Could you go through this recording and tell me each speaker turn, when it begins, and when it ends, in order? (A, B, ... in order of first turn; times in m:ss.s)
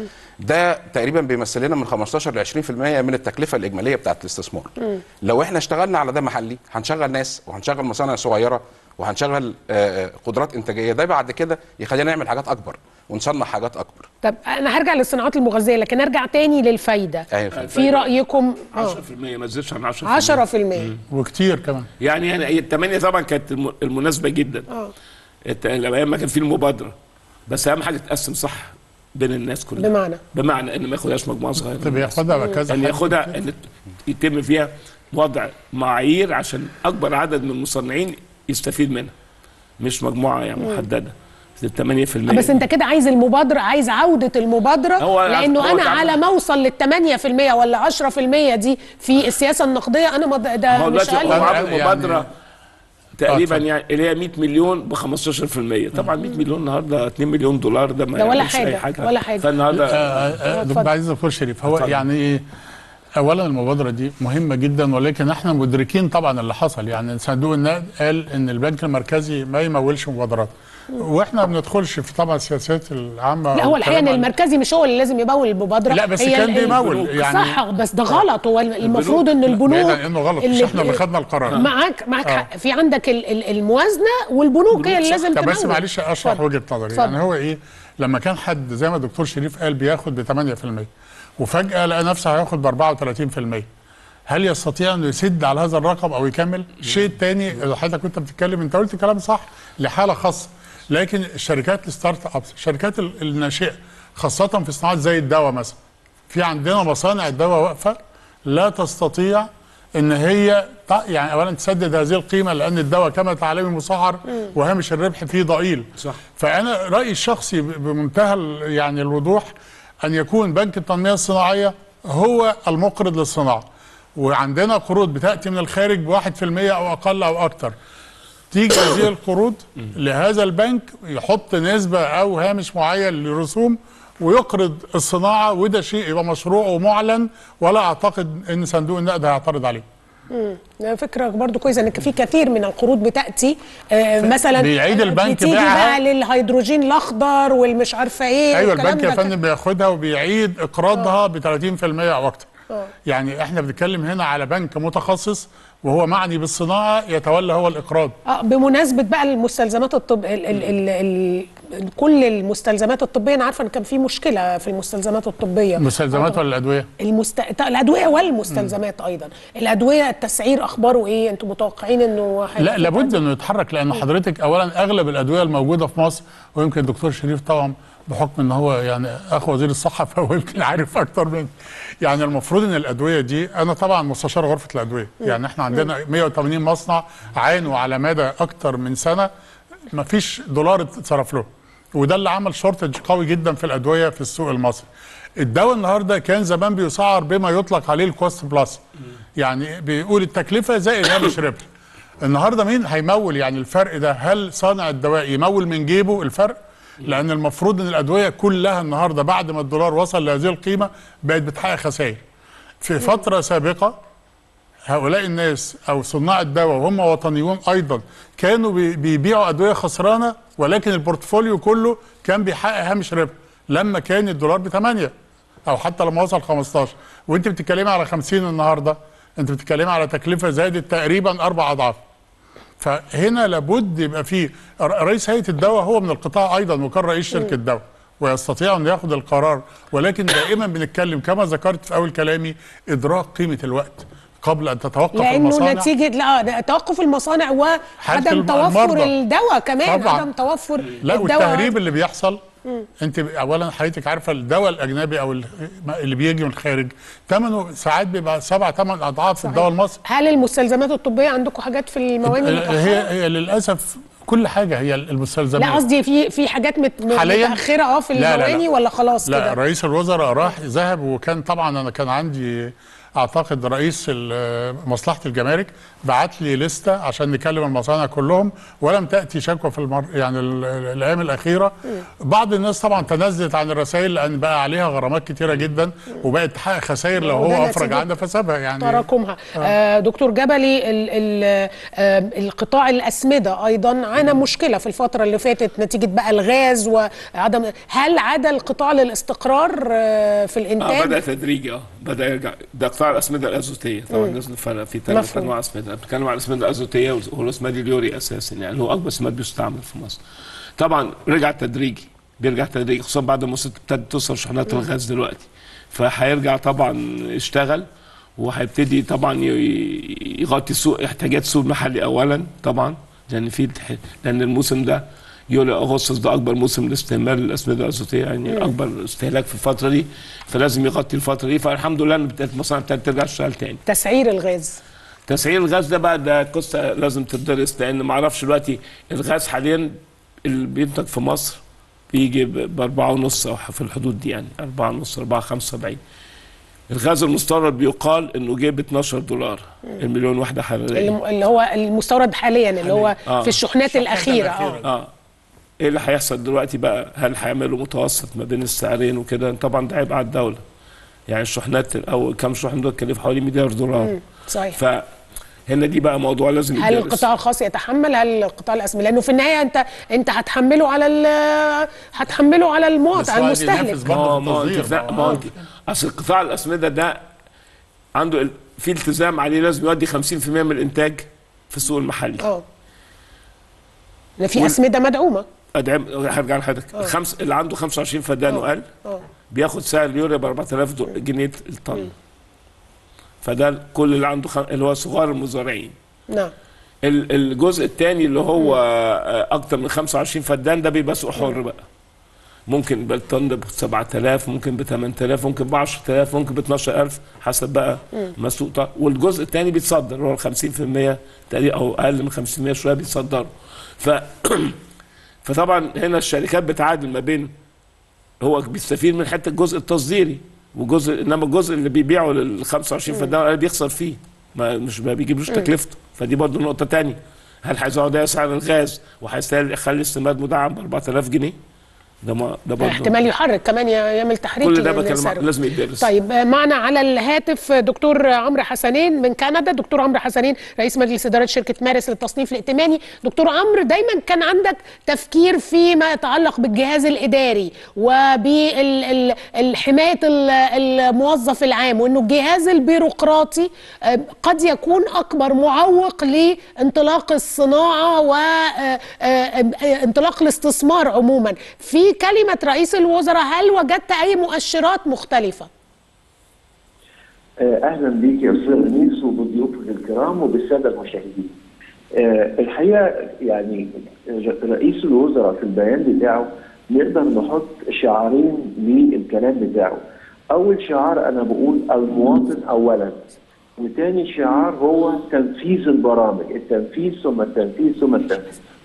0:00.4-0:14.1 A
0:14.2-0:19.0 B
0:17.3-0:17.7 A
0:17.5-0:18.1 C
0:18.7-0:20.4 C
0:20.0-0:20.9 B
0:21.1-0:21.9 D
0:22.0-0:24.7 C
0:25.5-0:27.0 C
0:27.5-0:39.1 C
0:29.8-0:30.2 B
0:31.8-0:33.3 D
0:32.4-0:32.6 B
0:39.8-0:42.6 C
0:40.6-0:40.8 B
0:42.3-0:51.7 B
0:45.0-0:46.2 C
0:50.7-0:52.3 C
0:51.3-0:52.2 D
0:53.2-1:00.2 C
0:53.3-0:53.6 D
0:58.2-0:59.5 B
0:59.8-1:02.4 D
1:00.2-1:00.9 B
1:01.7-1:02.0 C
1:03.2-1:14.3 D
1:13.5-1:21.0 B
1:15.9-1:17.6 D
1:16.8-1:17.0 C
1:18.9-1:19.2 C
1:19.5-1:21.6 D
1:21.5-1:27.2 B
1:24.7-1:33.7 D
1:34.3-1:45.8 D
1:46.3-1:59.5 D
2:00.0-2:03.7 D
2:04.2-2:07.8 D
2:08.5-2:19.8 D
2:20.3-2:29.3 B
2:24.2-2:26.0 D
2:28.5-2:32.5 D
2:33.1-2:38.2 D
2:38.3-2:46.4 B
2:45.8-2:46.9 D
2:47.0-2:53.2 B
2:52.6-3:09.3 D
3:09.9-3:14.9 D
3:15.4-3:18.8 D
3:19.4-3:21.7 D
3:22.2-3:32.2 D
3:32.8-3:34.0 D
3:34.9-3:45.1 D
3:45.7-3:52.0 D
3:52.8-4:05.9 D
4:05.1-4:11.8 B
4:08.0-4:09.1 D
4:09.8-4:10.3 D
4:11.0-4:12.4 D
4:13.0-4:20.0 D
4:19.4-4:23.1 B
4:22.2-4:25.8 D
4:25.6-4:29.6 B
4:27.1-4:27.6 D
4:28.2-4:28.6 D
4:29.3-4:49.0 D
4:47.2-4:48.1 B
4:48.8-5:01.2 B
5:00.8-5:10.2 C
5:04.1-5:04.4 B
5:05.1-5:05.5 B
5:10.8-5:17.9 C
5:18.4-5:33.8 C
5:33.9-5:34.8 B
5:35.3-5:46.0 C
5:46.9-5:51.2 C
5:50.9-5:54.8 B
5:52.8-5:53.6 C
5:53.8-5:54.9 D
5:54.8-5:55.1 C
5:55.8-6:00.6 C
6:01.3-6:04.2 C
6:04.0-6:04.8 B
6:04.8-6:05.1 C
6:05.7-6:07.2 C
6:06.8-6:14.0 B
6:13.2-6:15.5 D
6:14.1-6:17.2 C
6:18.2-6:22.5 C
6:24.4-6:25.5 B
6:25.8-6:28.9 C
6:28.5-6:29.2 B
6:29.5-6:32.1 C
6:33.4-6:36.0 C
6:37.0-6:41.8 C
6:42.7-6:54.8 C
6:55.4-6:57.5 C
6:58.4-7:11.6 C
7:12.2-7:13.2 C
7:12.8-7:45.7 B
7:14.6-7:16.1 C
7:47.6-7:51.5 E
7:52.2-8:08.6 E